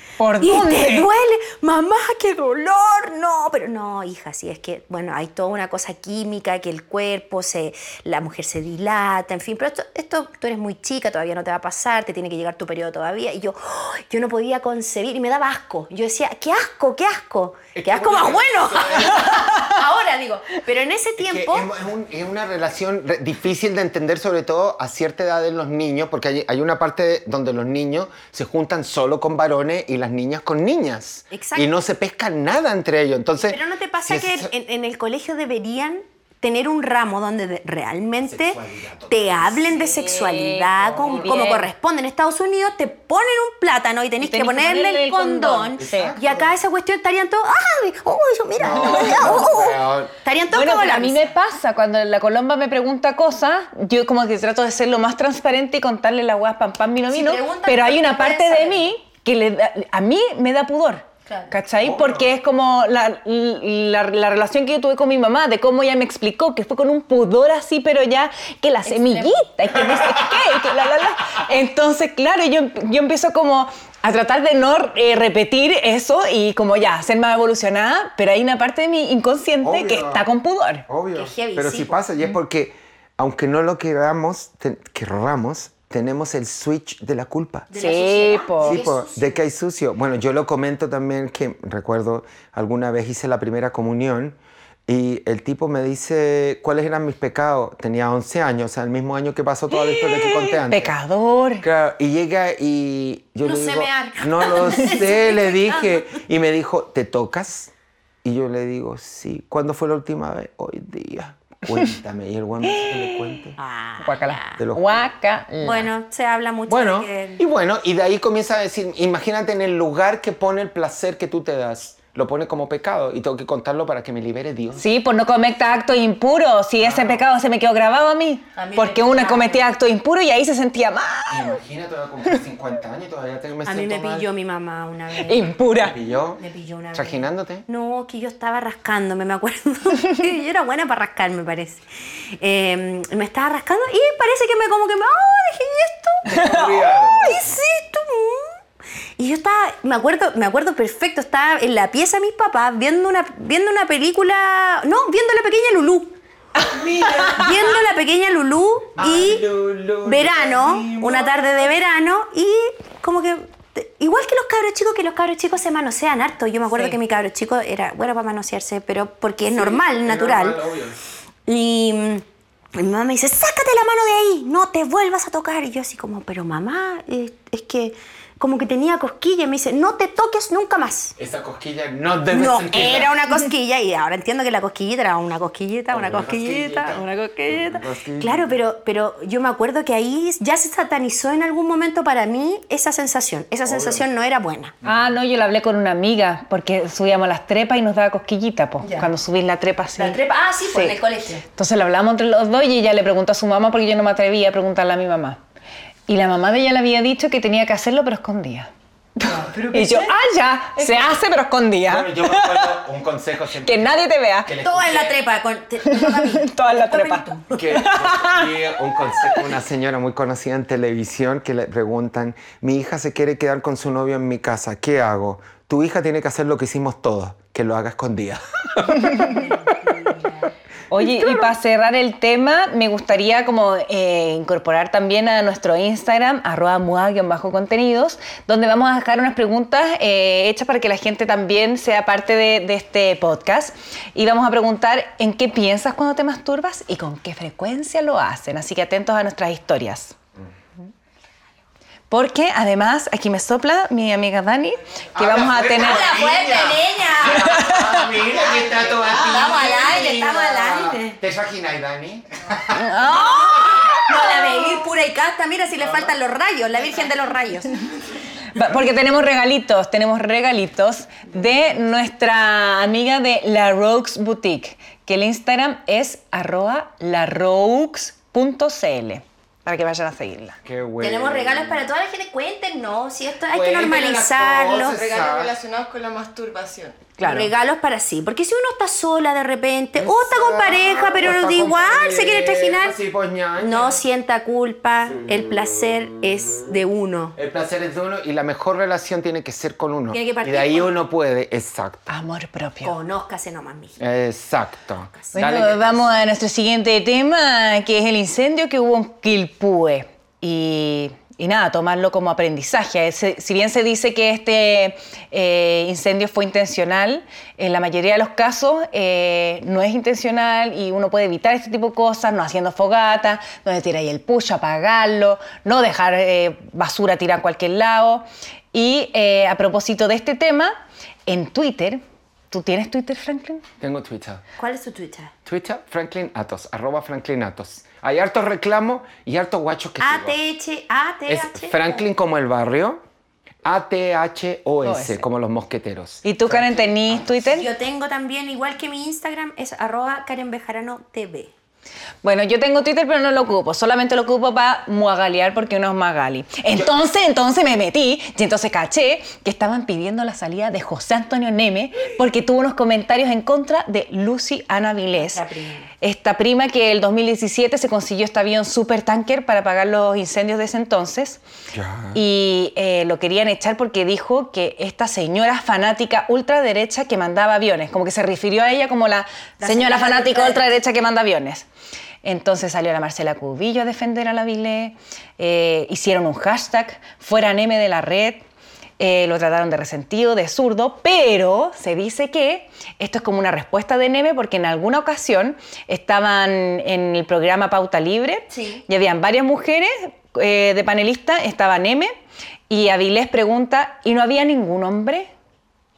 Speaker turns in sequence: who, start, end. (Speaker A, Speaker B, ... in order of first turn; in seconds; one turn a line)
Speaker A: 0.2-1.1
Speaker B: 0.4-21.7
Speaker C: 17.8-19.5
Speaker C: 21.2-34.5
Speaker B: 31.3-31.7
Speaker B: 33.5-51.3
Speaker C: 38.2-39.8
Speaker A: 39.8-41.7
Speaker A: 44.2-46.2
Speaker C: 45.8-46.6
Speaker C: 48.6-50.1
Speaker A: 48.8-49.5
Speaker A: 50.5-80.9
Speaker B: 57.1-58.9
Speaker B: 61.3-61.5
Speaker C: 61.8-62.3
Speaker B: 68.8-69.5
Speaker C: 70.0-70.2
Speaker C: 79.6-80.2
Speaker C: 80.9-87.7
Speaker B: 81.1-82.0
Speaker B: 87.7-89.4
Speaker A: 87.8-88.8
Speaker C: 88.6-100.9
Speaker A: 99.7-101.7
Speaker C: 101.6-107.7
Speaker B: 103.5-105.9
Speaker C: 108.2-113.6
Speaker A: 112.7-113.5
Speaker B: 113.6-114.6
Speaker A: 114.0-115.9
Speaker C: 114.6-115.0
Speaker B: 115.6-117.4
Speaker C: 116.7-124.9
Speaker A: 124.8-131.6
Speaker C: 126.8-127.2
Speaker B: 128.6-129.7
Speaker C: 131.3-134.3
Speaker B: 133.6-135.5
Speaker A: 135.2-136.0
Speaker C: 135.8-136.4
Speaker B: 136.4-141.8
Speaker C: 136.9-137.7
Speaker B: 142.4-148.6
Speaker C: 146.2-147.4
Speaker A: 146.4-146.7
Speaker B: 149.2-156.2
Speaker C: 156.6-157.5
Speaker B: 157.3-159.5
Speaker C: 159.0-161.6
Speaker B: 160.0-170.6
Speaker C: 169.5-171.0
Speaker B: 171.5-172.2
Speaker B: 172.8-181.2
Speaker C: 181.2-183.2
Speaker B: 182.3-194.7
Speaker C: 185.9-188.6
Speaker C: 193.7-194.1
Speaker A: 194.8-200.2
Speaker B: 198.8-199.1
Speaker B: 200.0-201.4
Speaker A: 200.7-201.0
Speaker A: 201.6-205.4
Speaker A: 206.1-212.8
Speaker B: 209.2-210.1
Speaker C: 211.9-215.2
Speaker A: 213.6-214.5
Speaker B: 214.6-217.6
Speaker A: 215.8-219.5
Speaker C: 217.5-229.2
Speaker A: 229.0-229.3
Speaker B: 229.0-230.5
Speaker A: 230.9-250.2
Speaker A: 252.1-256.1
Speaker C: 255.2-263.8
Speaker B: 255.7-257.7
Speaker A: 257.3-258.1
Speaker B: 258.3-261.2
Speaker A: 262.7-264.4
Speaker B: 263.2-267.8
Speaker C: 265.8-266.1
Speaker A: 268.5-280.6
Speaker C: 280.6-281.9
Speaker B: 281.0-285.0
Speaker C: 283.5-285.6
Speaker D: 284.8-287.1
Speaker B: 287.2-293.0
Speaker C: 290.0-294.0
Speaker B: 293.6-297.4
Speaker C: 297.4-302.1
Speaker B: 300.1-300.9
Speaker A: 302.1-302.9
Speaker B: 302.8-304.0
Speaker C: 304.0-306.2
Speaker A: 305.3-330.7
Speaker A: 331.3-333.6
Speaker C: 333.8-334.4
Speaker B: 334.6-335.3
Speaker C: 335.5-340.4
Speaker B: 340.0-342.0
Speaker C: 341.3-343.0
Speaker C: 343.6-347.6
Speaker A: 344.8-345.2
Speaker A: 346.2-347.7
Speaker B: 347.5-351.5
Speaker A: 352.2-365.4
Speaker B: 365.1-365.9
Speaker A: 366.0-371.4
Speaker C: 371.7-372.2
Speaker A: 372.1-381.7
Speaker B: 379.6-380.8
Speaker A: 382.2-388.4
Speaker A: 389.0-402.1
Speaker B: 398.5-398.8
Speaker A: 402.7-405.3